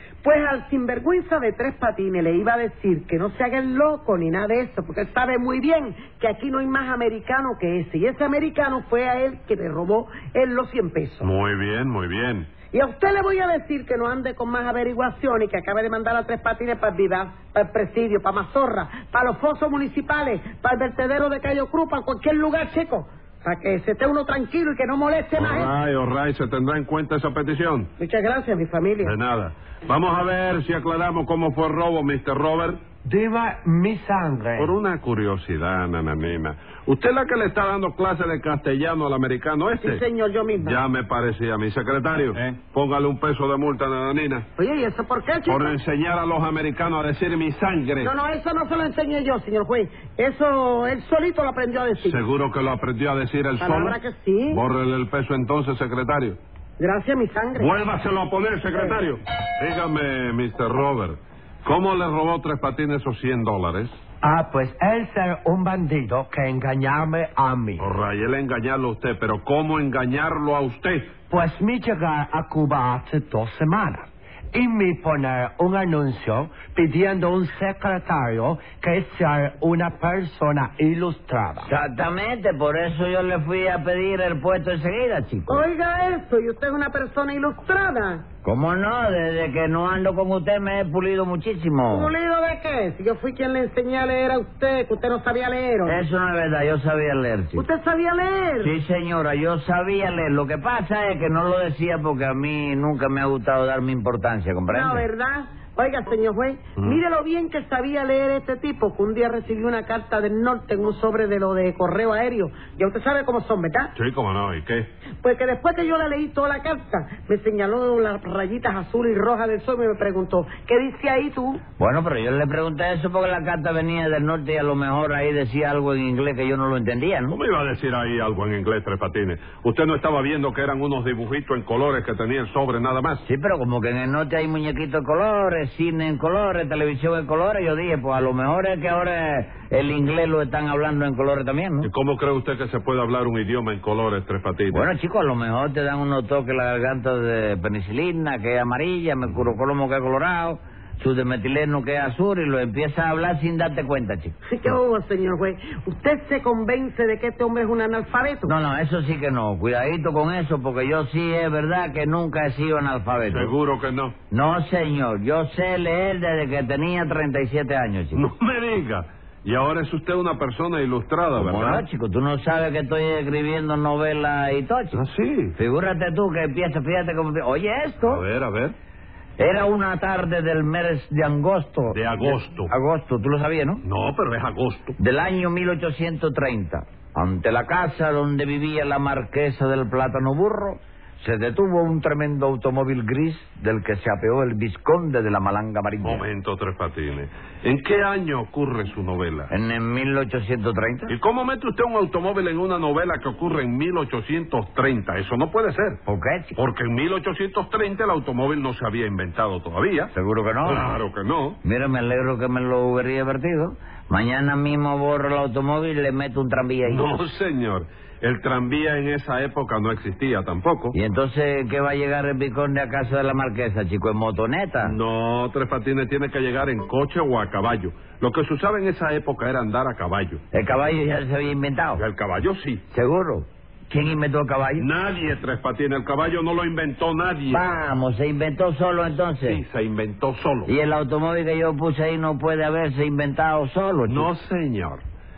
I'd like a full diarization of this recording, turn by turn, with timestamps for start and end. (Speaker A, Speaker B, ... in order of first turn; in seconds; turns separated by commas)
Speaker A: 0.2-11.3, Speaker B: 11.2-12.6, Speaker A: 12.7-25.7, Speaker B: 25.3-27.9, Speaker A: 28.0-29.2, Speaker B: 29.0-32.8, Speaker C: 33.0-34.8, Speaker B: 34.6-40.0, Speaker A: 39.8-40.8, Speaker B: 40.6-44.5, Speaker A: 44.6-45.8, Speaker B: 45.5-48.1, Speaker A: 48.0-52.2, Speaker B: 52.0-56.4, Speaker A: 53.6-54.6, Speaker A: 56.8-57.7, Speaker B: 57.6-64.0, Speaker A: 58.7-59.0, Speaker C: 64.2-67.9, Speaker B: 67.8-71.2, Speaker C: 71.3-81.7, Speaker D: 81.6-85.7, Speaker A: 85.5-88.2, Speaker D: 88.4-92.1, Speaker A: 91.9-96.0, Speaker D: 95.8-97.7, Speaker A: 97.6-98.8, Speaker D: 98.6-105.1, Speaker A: 104.7-113.9, Speaker B: 106.8-107.0, Speaker B: 114.0-114.9, Speaker A: 115.2-121.6, Speaker D: 121.8-127.4, Speaker B: 127.3-133.2, Speaker D: 133.3-141.9, Speaker B: 141.8-144.9, Speaker D: 144.7-154.4, Speaker A: 154.5-158.5, Speaker D: 158.4-163.5, Speaker B: 163.2-164.2, Speaker D: 164.3-168.2, Speaker B: 168.1-171.9, Speaker D: 171.4-175.0, Speaker B: 174.9-175.6, Speaker D: 175.6-178.2, Speaker B: 178.0-178.8, Speaker D: 179.4-183.8, Speaker B: 181.9-182.7, Speaker B: 183.8-185.0, Speaker D: 185.0-196.2, Speaker B: 196.0-199.5, Speaker D: 199.5-201.1, Speaker B: 201.1-206.0, Speaker D: 206.1-206.6, Speaker B: 206.6-210.1, Speaker D: 210.1-210.9, Speaker B: 210.6-211.6, Speaker D: 211.6-217.1, Speaker B: 216.8-221.0, Speaker D: 220.9-225.0, Speaker B: 224.8-230.4, Speaker D: 230.5-232.0, Speaker B: 232.0-232.8, Speaker D: 232.9-234.9, Speaker B: 234.8-237.7, Speaker D: 237.5-239.6, Speaker B: 239.5-240.7, Speaker D: 240.7-244.3, Speaker B: 244.1-245.0